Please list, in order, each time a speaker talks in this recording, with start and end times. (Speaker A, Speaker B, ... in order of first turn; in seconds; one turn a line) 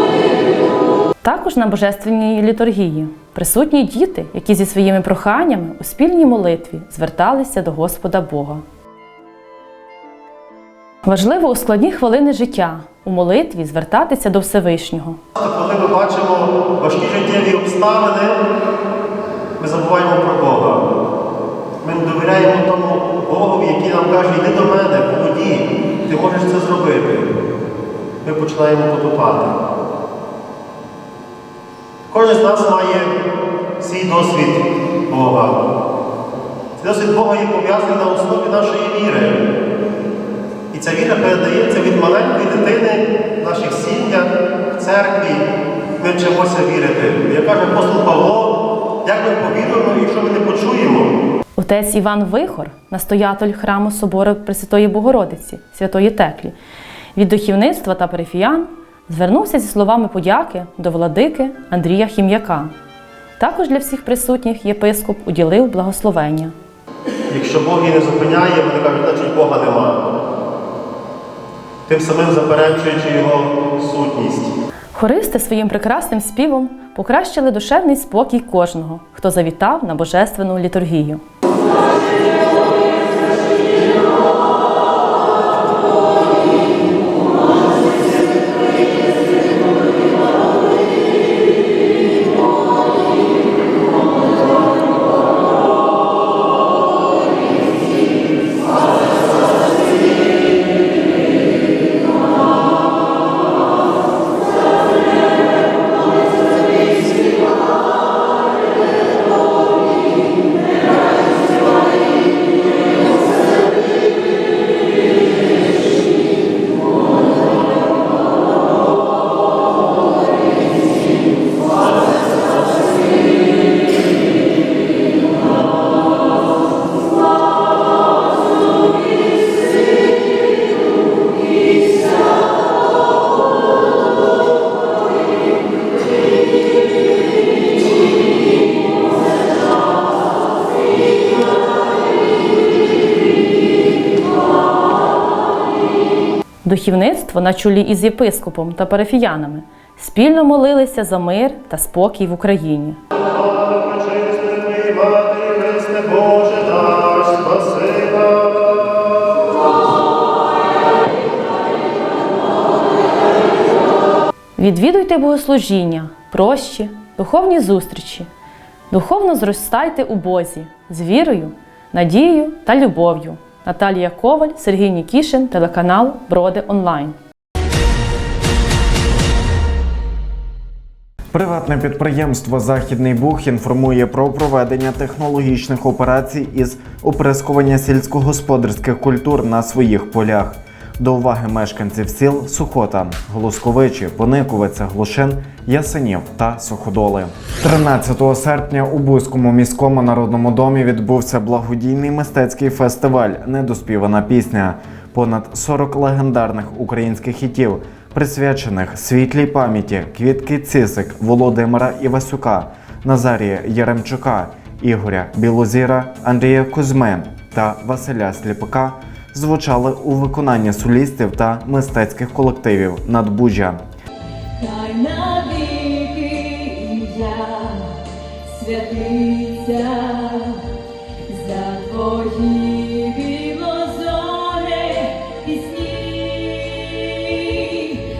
Speaker A: 1.2-8.6
Speaker A: 11.0-15.2
Speaker B: 15.4-18.4
Speaker B: 19.6-20.9
Speaker B: 21.8-27.3
Speaker B: 28.2-29.5
Speaker B: 32.1-33.1
Speaker B: 33.8-35.6
Speaker B: 36.8-39.4
Speaker B: 40.7-45.5
Speaker B: 46.0-51.1
Speaker A: 51.6-56.5
Speaker A: 57.1-62.7
Speaker A: 63.4-66.5
Speaker B: 67.3-70.0
Speaker B: 71.9-74.5
Speaker A: 74.9-81.2
Speaker A: 146.6-153.0
Speaker B: 153.3-158.9
Speaker A: 164.6-168.3
Speaker A: 168.9-177.1
Speaker C: 181.3-223.8
Speaker D: 224.6-227.9
Speaker D: 228.5-230.6
Speaker D: 231.3-237.0